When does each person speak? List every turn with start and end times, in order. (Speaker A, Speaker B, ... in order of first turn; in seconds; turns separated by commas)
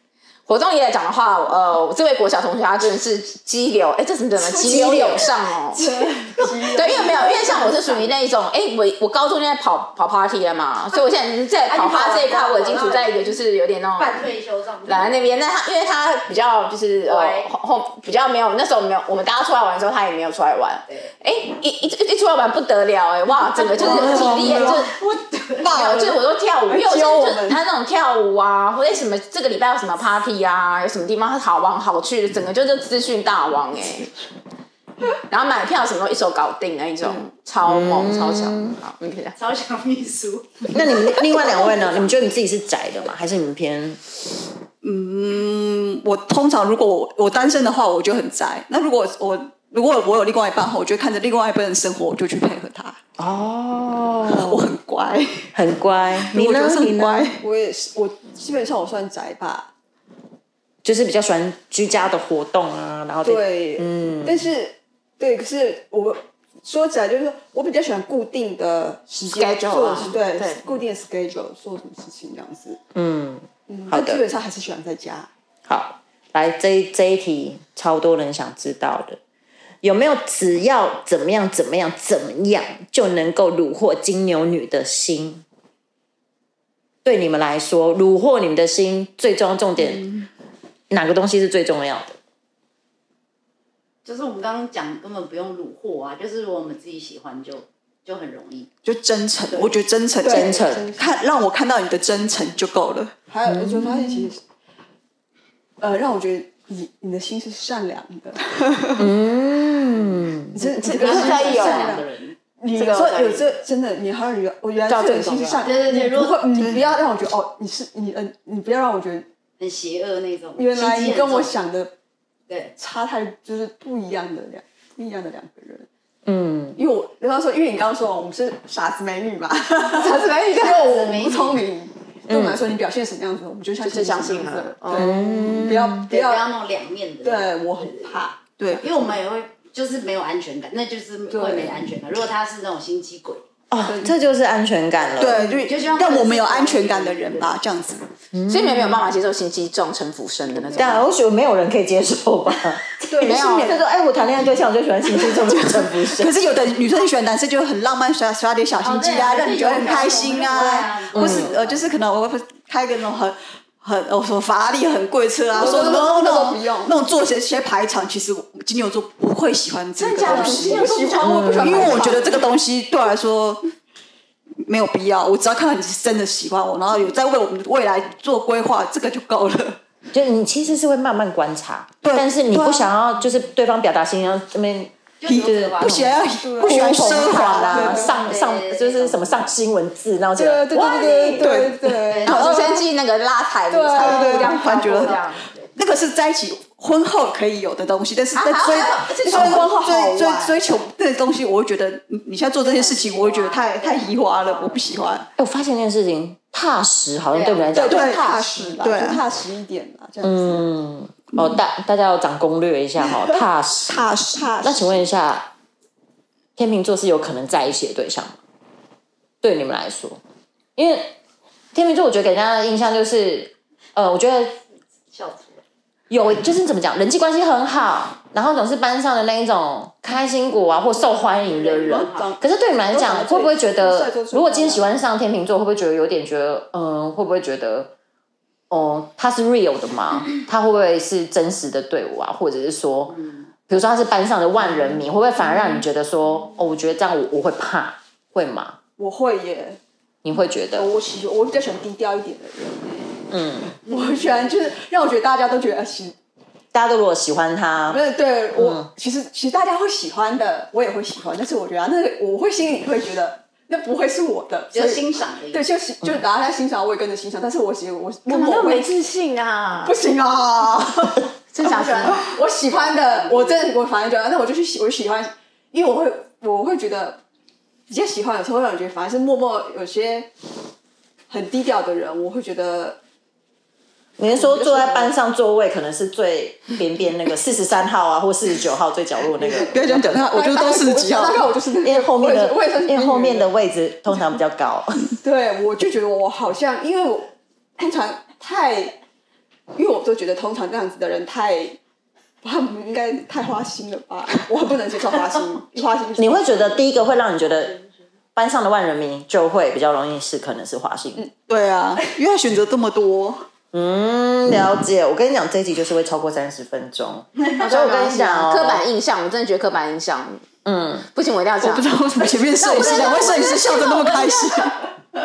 Speaker A: 0.5-5.8, Speaker B: 4.4-8.0, Speaker A: 6.7-14.2, Speaker C: 6.8-7.9, Speaker C: 11.7-13.4, Speaker C: 14.0-15.3, Speaker A: 14.8-24.9, Speaker C: 17.0-17.5, Speaker C: 20.9-21.1, Speaker C: 23.5-25.6, Speaker B: 23.6-24.9, Speaker B: 25.6-27.6, Speaker A: 25.7-34.1, Speaker A: 35.3-39.4, Speaker D: 37.6-38.8, Speaker C: 39.4-42.2, Speaker D: 40.7-44.0, Speaker E: 44.8-53.0, Speaker D: 53.2-54.7, Speaker E: 54.3-55.5, Speaker D: 55.5-57.3, Speaker E: 56.2-57.4, Speaker B: 57.4-59.7, Speaker D: 60.8-64.5, Speaker B: 63.2-72.8, Speaker A: 69.3-70.7, Speaker D: 72.9-74.2, Speaker B: 73.7-75.3, Speaker D: 75.7-79.2, Speaker D: 79.8-85.4, Speaker D: 87.0-90.1, Speaker E: 89.8-90.3, Speaker D: 90.9-92.2, Speaker C: 94.0-98.7, Speaker E: 98.8-103.2, Speaker B: 100.2-101.2, Speaker D: 100.3-100.9, Speaker B: 103.3-104.4, Speaker D: 103.5-104.3, Speaker B: 105.8-108.9, Speaker D: 109.0-110.6, Speaker B: 110.5-112.0, Speaker E: 110.8-111.7, Speaker C: 110.8-112.3, Speaker A: 111.0-112.0, Speaker B: 112.6-119.3, Speaker A: 112.7-113.4, Speaker A: 114.9-115.7, Speaker C: 115.6-116.4, Speaker C: 119.6-121.5, Speaker B: 120.5-121.9, Speaker B: 122.8-125.9, Speaker D: 126.2-126.8, Speaker B: 126.8-136.5, Speaker C: 130.0-131.7, Speaker D: 132.3-132.6, Speaker A: 133.8-135.1, Speaker D: 134.9-136.1, Speaker C: 136.1-138.2, Speaker B: 137.2-138.6, Speaker E: 138.6-138.8, Speaker C: 138.7-143.4, Speaker B: 141.3-141.8, Speaker D: 143.7-145.4, Speaker B: 143.8-144.1, Speaker E: 145.2-148.0, Speaker B: 145.2-145.7, Speaker C: 145.6-147.6, Speaker D: 148.3-149.1, Speaker A: 148.5-151.0, Speaker D: 150.8-156.3, Speaker B: 153.1-153.7, Speaker A: 153.2-153.7, Speaker E: 155.1-170.9, Speaker C: 158.8-161.9, Speaker D: 161.1-161.5, Speaker B: 165.5-166.9, Speaker A: 170.0-172.2, Speaker B: 170.1-172.5, Speaker D: 171.2-171.8, Speaker E: 171.6-173.6, Speaker E: 174.6-179.8, Speaker D: 180.1-191.4, Speaker E: 182.0-182.9, Speaker C: 185.2-186.1, Speaker E: 185.3-188.0, Speaker B: 186.4-188.2, Speaker C: 187.9-189.5, Speaker B: 190.3-192.8, Speaker A: 190.8-191.3, Speaker E: 191.3-192.6, Speaker C: 192.1-192.4, Speaker A: 192.3-195.4, Speaker B: 193.7-195.1, Speaker E: 194.0-195.2, Speaker C: 195.1-195.6, Speaker E: 195.7-205.2, Speaker A: 198.3-199.7, Speaker B: 199.2-200.6, Speaker C: 202.6-205.2, Speaker D: 205.4-208.2, Speaker C: 207.3-208.4, Speaker B: 207.7-210.7, Speaker E: 207.9-209.2, Speaker D: 210.2-214.0, Speaker E: 213.9-214.4, Speaker B: 214.3-215.0, Speaker D: 214.6-215.5, Speaker D: 216.6-218.4, Speaker D: 219.4-220.2, Speaker D: 220.8-221.1, Speaker D: 221.7-224.6, Speaker C: 225.1-225.6, Speaker D: 226.1-237.9, Speaker C: 231.0-232.3, Speaker B: 231.8-234.9, Speaker D: 238.7-243.1, Speaker C: 243.1-243.5, Speaker D: 243.7-248.8, Speaker B: 249.0-249.8, Speaker D: 250.2-250.9, Speaker B: 250.7-253.2, Speaker D: 253.3-253.7, Speaker B: 253.8-256.1, Speaker C: 253.8-254.7, Speaker D: 256.7-258.0, Speaker B: 257.9-269.0, Speaker D: 258.5-258.9, Speaker C: 264.7-265.7, Speaker A: 268.3-269.9, Speaker B: 269.8-277.2, Speaker A: 271.5-272.2, Speaker C: 272.7-273.7, Speaker B: 277.9-280.3, Speaker B: 281.3-283.0, Speaker D: 284.2-290.4, Speaker B: 284.4-285.1, Speaker E: 289.6-291.4, Speaker B: 290.2-293.5, Speaker D: 291.8-295.1, Speaker B: 295.2-298.9, Speaker B: 299.7-301.8, Speaker B: 302.4-306.8, Speaker D: 306.2-307.8, Speaker D: 308.3-311.3, Speaker E: 311.5-313.4, Speaker D: 313.7-318.8, Speaker E: 317.4-317.7, Speaker B: 318.0-318.4, Speaker A: 318.4-320.4, Speaker D: 320.6-321.1, Speaker A: 321.1-324.7, Speaker E: 321.6-324.8